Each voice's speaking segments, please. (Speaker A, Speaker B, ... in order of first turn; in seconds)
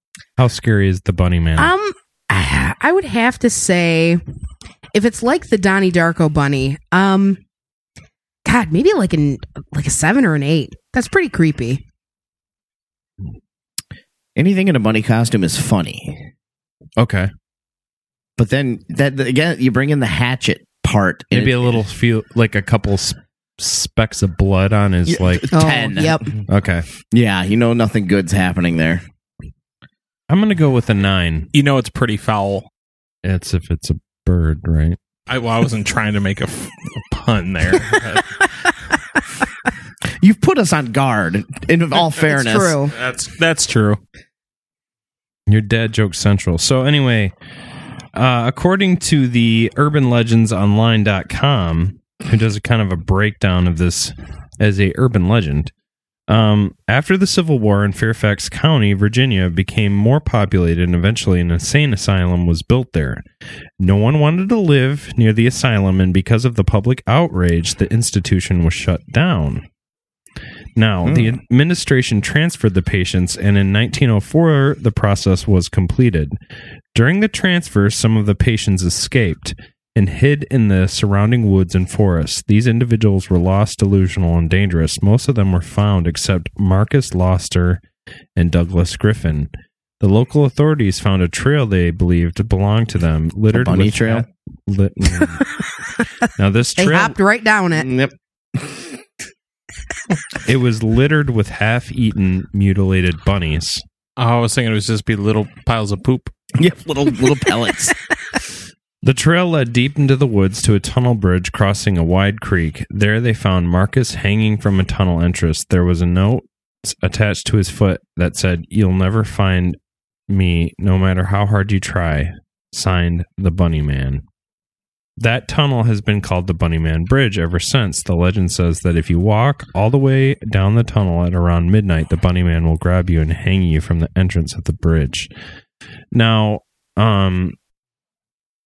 Speaker A: 0.4-1.7, 17.0-17.3, 21.3-25.5, 26.5-26.9, 30.3-31.5, 33.2-35.0, 45.5-47.3, 48.1-55.7, 56.3-63.2, 63.8-69.7, 70.8-76.4, 76.9-87.8, 88.4-95.4, 96.4-97.2, 100.5-103.8, 109.0-119.8, 120.3-124.2, 125.2-135.3, 136.1-137.6
Speaker B: 1.6-4.2, 4.9-7.4, 8.4-11.8, 25.5-26.3, 42.3-42.9, 96.8-97.9
Speaker C: 14.4-16.3, 18.4-21.8, 25.1-26.5, 27.1-29.0, 40.2-42.8, 71.0-71.3, 93.5-94.3, 97.7-98.8, 106.6-108.0
Speaker D: 31.5-32.7, 35.3-38.5, 42.9-44.0, 104.2-106.3